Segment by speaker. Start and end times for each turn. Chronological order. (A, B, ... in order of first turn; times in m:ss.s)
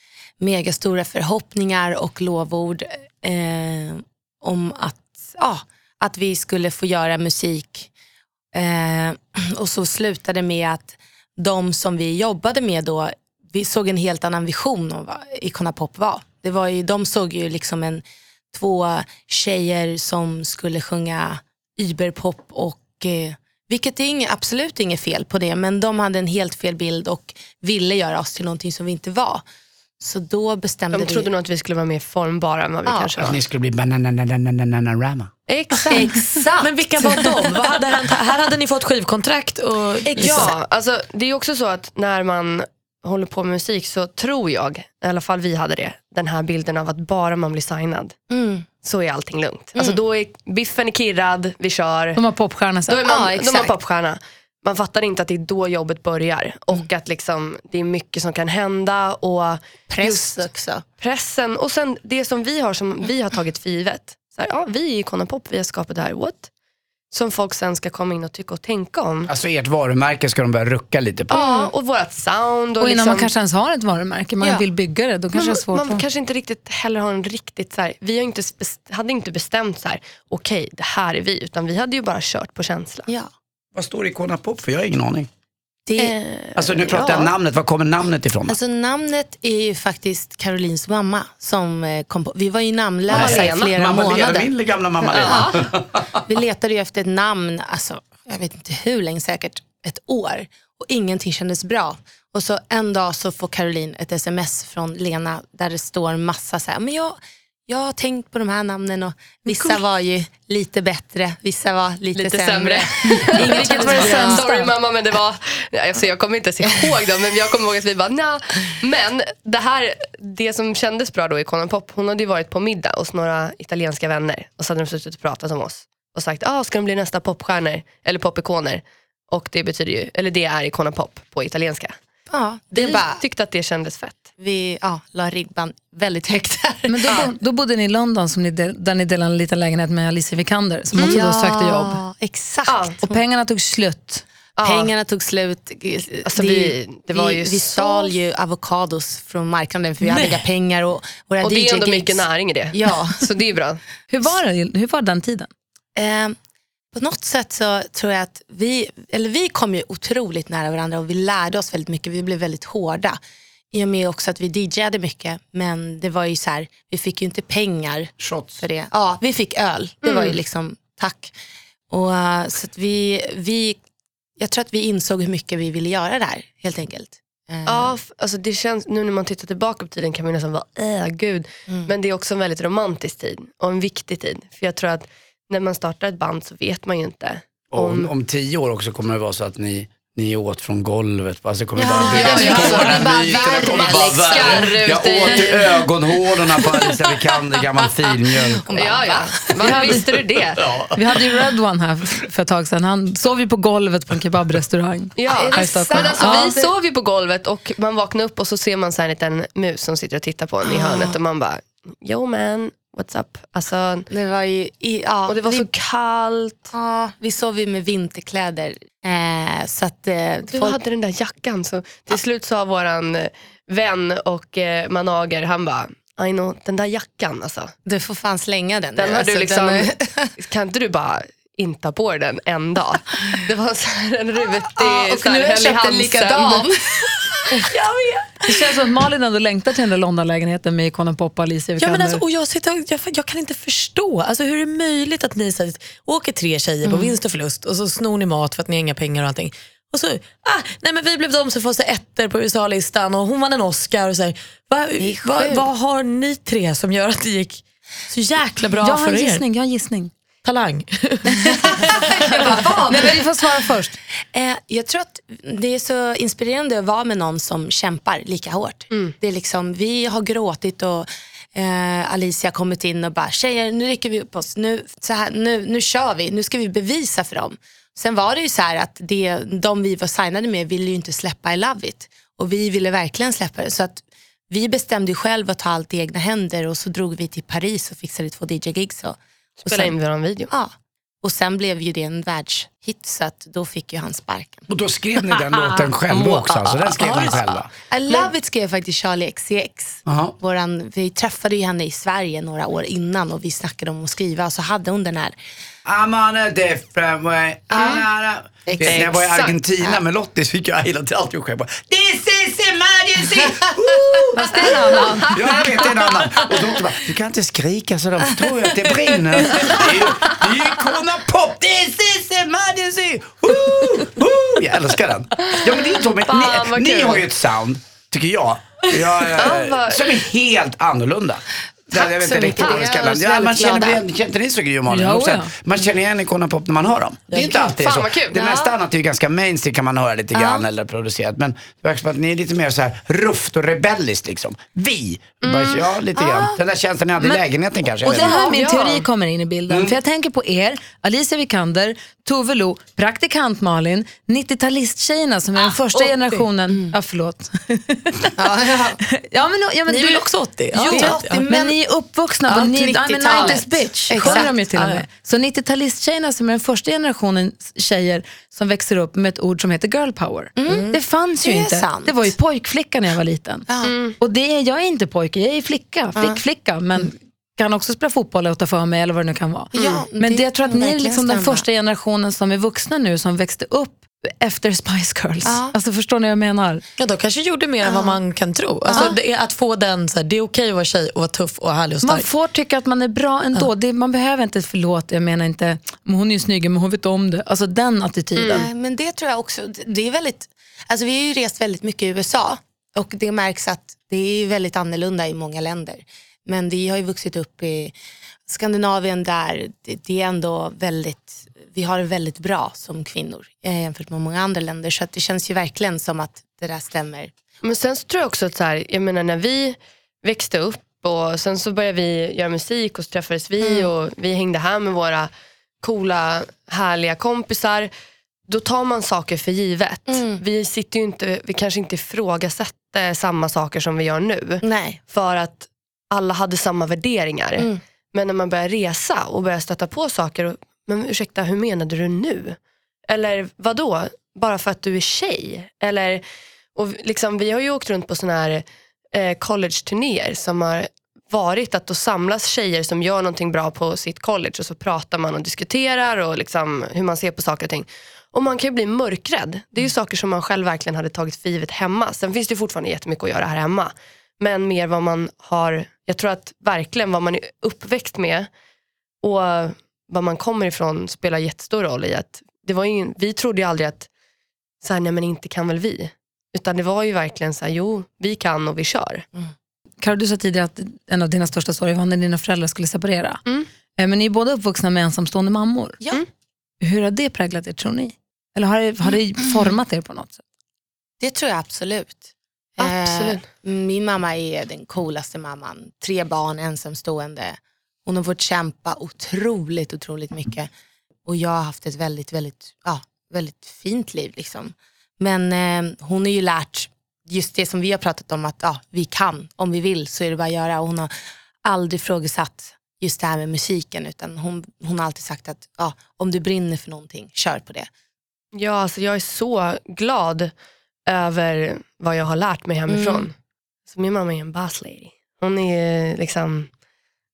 0:00.4-0:07.9 A
0:08.5-0:29.4 A
0:30.0-0:31.3 A
0:30.9-0:33.4 B
0:32.8-0:33.1 A
0:33.2-0:35.3 C
0:35.5-0:36.3 B
0:35.9-0:37.6 A
0:36.6-0:40.5 D
0:40.1-0:40.5 A
0:40.1-0:48.1 B
0:48.3-0:48.7 A
0:48.8-0:52.2 B
0:49.7-0:50.0 A
0:52.1-0:53.0 E
0:52.9-1:00.4 B
0:53.0-0:53.7 A
0:59.9-1:00.8 A
1:01.0-1:06.5 B
1:07.1-1:09.3 B
1:09.3-1:11.3 C
1:11.3-1:13.3 B
1:11.3-1:11.7 A
1:12.8-1:16.0 E
1:15.3-1:23.1 B
1:23.1-1:23.3 A
1:23.7-1:25.3 C
1:25.8-1:26.2 A
1:26.0-1:27.1 B
1:26.5-1:28.6 C
1:26.7-1:27.3 A
1:28.5-1:34.5 A
1:33.1-1:33.8 B
1:33.1-1:36.2 C
1:35.0-1:35.6 A
1:35.1-1:35.5 B
1:36.2-1:54.5 A
1:52.1-2:12.0 B
1:53.1-1:54.7 E
2:12.3-2:13.2 A
2:12.7-2:14.3 B
2:14.4-2:17.3 A
2:16.9-2:22.0 E
2:21.0-2:23.1 A
2:22.7-2:23.0 B
2:23.0-2:24.2 E
2:24.6-2:24.9 B
2:24.6-2:33.3 A
2:26.2-2:28.1 B
2:31.4-2:33.8 B
2:34.1-2:35.5 E
2:36.0-2:36.4 A
2:36.9-2:43.2 A
2:43.7-2:51.3 A
2:48.2-2:48.6 C
2:50.0-2:50.4 B
2:51.9-2:53.8 A
2:54.4-2:58.0 A
2:57.6-3:08.1 B
3:07.7-3:18.9 C
3:11.7-3:14.7 A
3:12.0-3:15.8 B
3:18.5-3:19.9 A
3:18.7-3:20.6 B
3:20.6-3:20.9 C
3:20.9-3:26.5 E
3:25.2-3:34.1 B
3:25.2-3:26.7 A
3:30.6-3:31.2 A
3:34.1-3:35.7 A
3:35.3-3:36.7 B
3:36.7-3:40.8 A
3:40.5-3:47.7 B
3:47.8-3:50.3 A
3:49.0-3:57.1 B
3:54.8-3:57.7 A
3:57.6-3:58.5 D
3:58.4-4:02.2 E
4:01.8-4:19.4 D
4:06.8-4:07.2 A
4:15.0-4:15.6 A
4:18.8-4:20.1 E
4:20.4-4:22.1 D
4:21.6-4:23.2 A
4:22.9-4:24.0 E
4:24.3-4:49.9 A
4:49.6-4:50.5 B
4:50.5-4:54.7 A
4:54.7-4:57.7 C
4:56.1-4:57.6 D
4:57.9-5:05.4 A
5:00.0-5:00.3 C
5:05.8-5:48.4 C
5:07.7-5:08.0 A
5:08.6-5:10.0 A
5:08.8-5:09.5 B
5:13.3-5:14.2 A
5:14.3-5:15.3 E
5:15.3-5:16.0 B
5:26.3-5:27.2 B
5:29.3-5:30.1 B
5:31.9-5:34.0 A
5:32.6-5:32.9 B
5:34.9-5:35.5 E
5:37.3-5:37.7 D
5:37.4-5:38.4 B
5:38.3-5:38.7 A
5:40.3-5:40.6 A
5:45.4-5:45.9 B
5:46.2-5:46.6 A
5:48.0-5:58.3 E
5:48.1-5:49.0 B
5:49.7-5:50.0 C
5:55.9-5:56.4 D
5:56.7-5:56.9 A
5:58.4-5:59.0 A
5:59.1-6:13.7 E
5:59.9-6:01.4 D
6:00.9-6:01.8 A
6:02.5-6:04.5 A
6:04.1-6:05.0 D
6:10.6-6:12.4 A
6:10.7-6:10.9 D
6:13.7-6:13.9 A
6:13.8-6:14.2 B
6:14.2-6:26.8 E
6:16.2-6:16.4 A
6:19.7-6:21.6 A
6:25.4-6:25.7 A
6:27.0-6:32.3 D
6:27.8-6:28.2 A
6:28.8-6:29.1 A
6:32.0-6:38.7 E
6:38.4-6:38.6 B
6:38.5-6:47.9 A
6:48.5-6:57.3 A
6:57.6-7:05.3 B
7:03.6-7:03.9 A
7:05.8-7:07.9 B
7:08.5-7:22.6 B
7:10.1-7:10.4 A
7:14.6-7:15.0 A
7:23.1-7:26.2 B
7:26.7-7:48.5 B
7:49.2-7:54.1 B
7:54.8-7:59.2 B
8:00.0-8:03.4 E
8:04.0-8:06.0 E
8:06.8-8:10.4 E
8:09.4-8:09.7 A
8:11.2-8:20.7 A
8:12.8-8:13.4 B
8:21.2-8:31.1 A
8:31.6-8:37.9 A
8:38.5-8:40.5 B
8:41.1-8:43.3 B
8:42.9-8:43.3 A
8:43.9-8:46.7 B